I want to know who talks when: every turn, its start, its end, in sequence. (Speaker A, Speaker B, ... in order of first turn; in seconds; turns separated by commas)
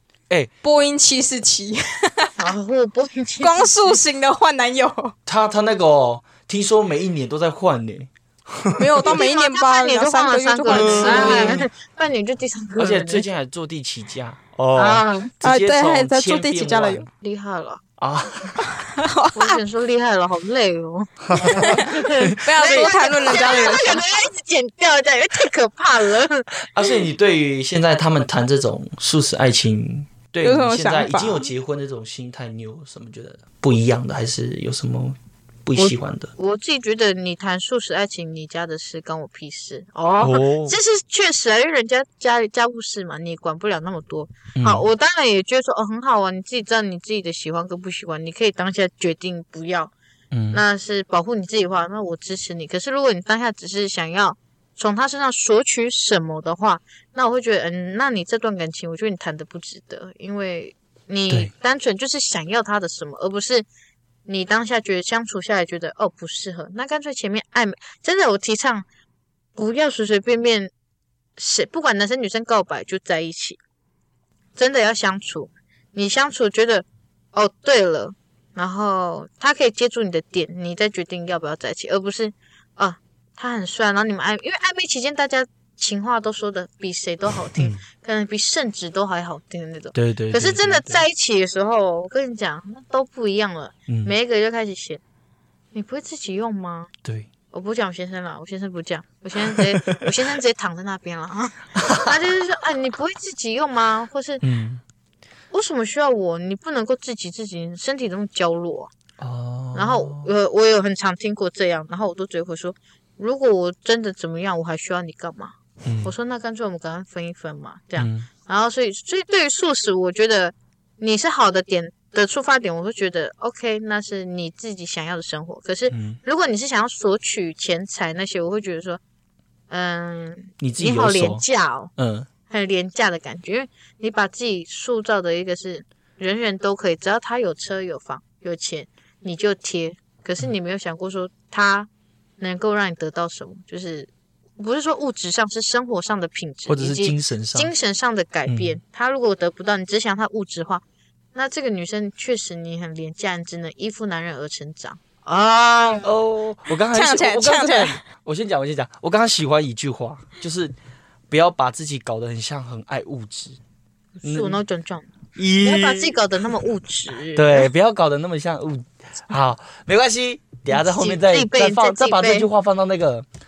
Speaker A: 0.6-2.5, Speaker B: 2.4-4.0, Speaker A: 3.4-5.1, Speaker C: 5.3-9.1, Speaker A: 8.8-11.6, Speaker B: 9.1-13.3, Speaker C: 10.7-11.7, Speaker C: 12.8-17.1, Speaker B: 14.8-15.3, Speaker A: 15.4-17.1, Speaker B: 17.2-17.8, Speaker C: 18.0-18.7, Speaker A: 18.7-19.6, Speaker B: 19.3-26.5, Speaker C: 21.3-22.9, Speaker A: 21.5-24.1, Speaker C: 26.6-36.3, Speaker A: 30.4-31.5, Speaker B: 35.8-49.9, Speaker C: 40.2-40.8, Speaker C: 44.6-44.9, Speaker C: 50.3-50.6, Speaker B: 50.5-63.7, Speaker B: 64.3-68.9, Speaker B: 69.6-70.7, Speaker B: 71.4-73.6, Speaker B: 74.6-95.0, Speaker C: 87.6-87.8, Speaker C: 89.9-91.0, Speaker C: 93.9-94.1, Speaker B: 95.7-96.9, Speaker C: 97.0-97.3, Speaker B: 97.5-104.4, Speaker C: 99.4-100.1, Speaker C: 101.8-102.1, Speaker C: 104.4-104.8, Speaker B: 105.5-108.9, Speaker C: 109.2-110.3, Speaker B: 109.7-129.0, Speaker C: 115.8-116.1, Speaker C: 118.0-118.3, Speaker C: 125.9-126.2, Speaker B: 129.7-131.9, Speaker C: 130.6-131.4, Speaker C: 132.0-132.3, Speaker B: 132.5-141.9, Speaker B: 142.4-150.8, Speaker C: 146.7-147.7, Speaker C: 148.5-148.8, Speaker B: 151.3-156.1, Speaker C: 156.0-160.7, Speaker A: 156.9-158.0, Speaker C: 161.3-163.6, Speaker B: 164.2-167.7, Speaker C: 164.2-164.6, Speaker C: 165.4-166.2, Speaker C: 167.3-173.3, Speaker B: 170.7-172.5